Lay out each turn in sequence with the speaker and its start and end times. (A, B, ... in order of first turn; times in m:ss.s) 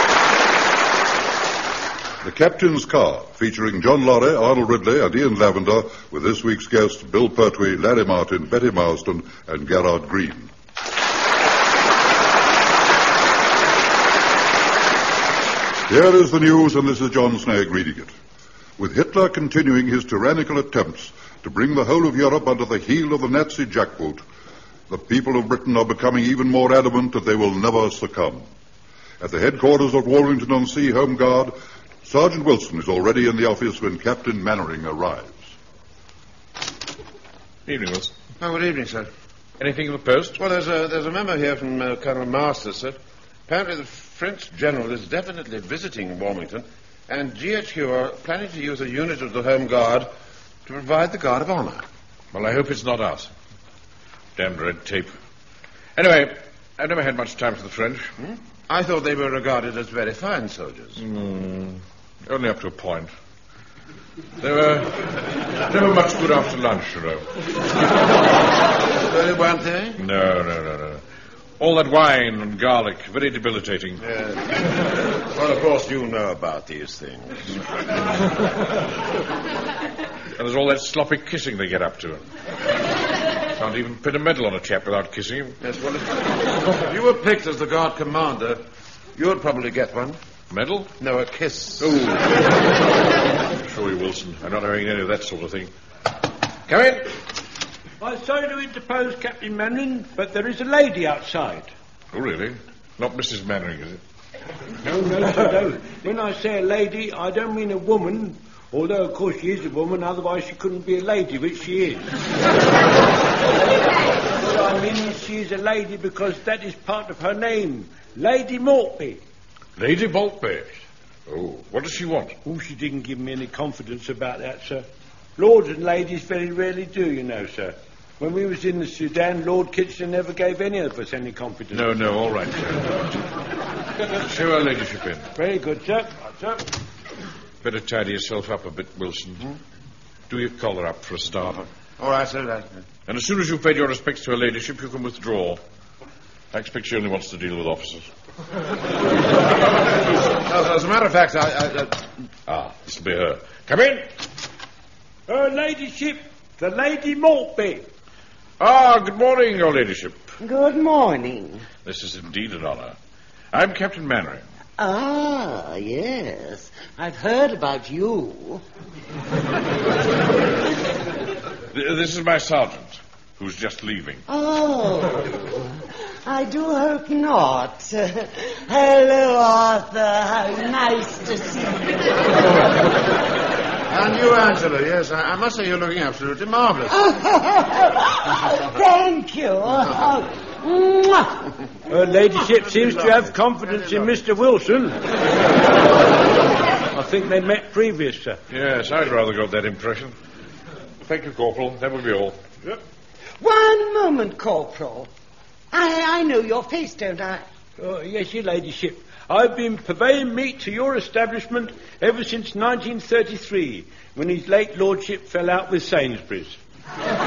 0:02.2-0:10.5 A
0:15.9-0:18.1 A
0:18.8-0:24.2 A
0:24.9-0:28.4 A
0:29.2-0:35.4 A
0:37.6-0:38.1 B
0:38.4-0:39.1 C
0:39.6-0:40.4 B
0:40.4-0:43.0 C
0:43.5-0:50.1 C
0:50.6-0:51.8 C
0:52.3-0:53.3 B
0:54.4-0:55.1 B
0:56.0-0:58.1 B
0:58.2-1:01.0 C
1:01.0-1:03.1 B
1:04.4-1:07.3 B
1:09.0-1:10.0 C
1:10.0-1:11.0 B
1:11.6-1:14.0 B
1:14.0-1:14.5 C
1:15.3-1:17.6 C
1:20.4-1:22.2 B
1:23.6-1:25.6 B
1:25.6-1:26.1 C
1:26.8-1:28.6 C
1:29.2-1:30.2 C
1:30.5-1:30.9 B
1:31.0-1:32.0 C
1:31.8-1:32.2 B
1:33.6-1:35.7 B
1:36.7-1:37.1 B
1:38.0-1:41.7 D
1:42.1-1:44.0 B
1:44.8-1:52.1 D
1:54.4-1:59.2 D
1:59.8-2:00.7 B
2:01.3-2:02.3 B
2:02.4-2:04.8 D
2:05.4-2:11.9 D
2:11.7-2:13.2 B
2:14.1-2:15.3 B
2:15.3-2:16.6 D
2:17.6-2:19.5 B
2:20.3-2:21.6 B
2:22.0-2:22.8 C
2:23.1-2:25.6 B
2:26.5-2:28.1 B
2:30.4-2:32.0 C
2:32.5-2:34.1 B
2:35.3-2:37.8 D
2:38.6-2:40.2 B
2:40.4-2:41.6 E
2:41.8-2:43.0 B
2:43.5-2:44.4 B
2:44.8-2:48.6 E
2:51.7-2:54.2 B
2:54.3-3:02.2 E
3:03.9-3:06.9 C
3:06.9-3:11.5 E
3:11.9-3:15.0 D
3:16.9-3:18.4 D
3:18.5-3:20.1 B
3:21.0-3:22.4 B
3:23.4-3:25.1 E
3:25.7-3:27.4 E
3:27.8-3:36.6 D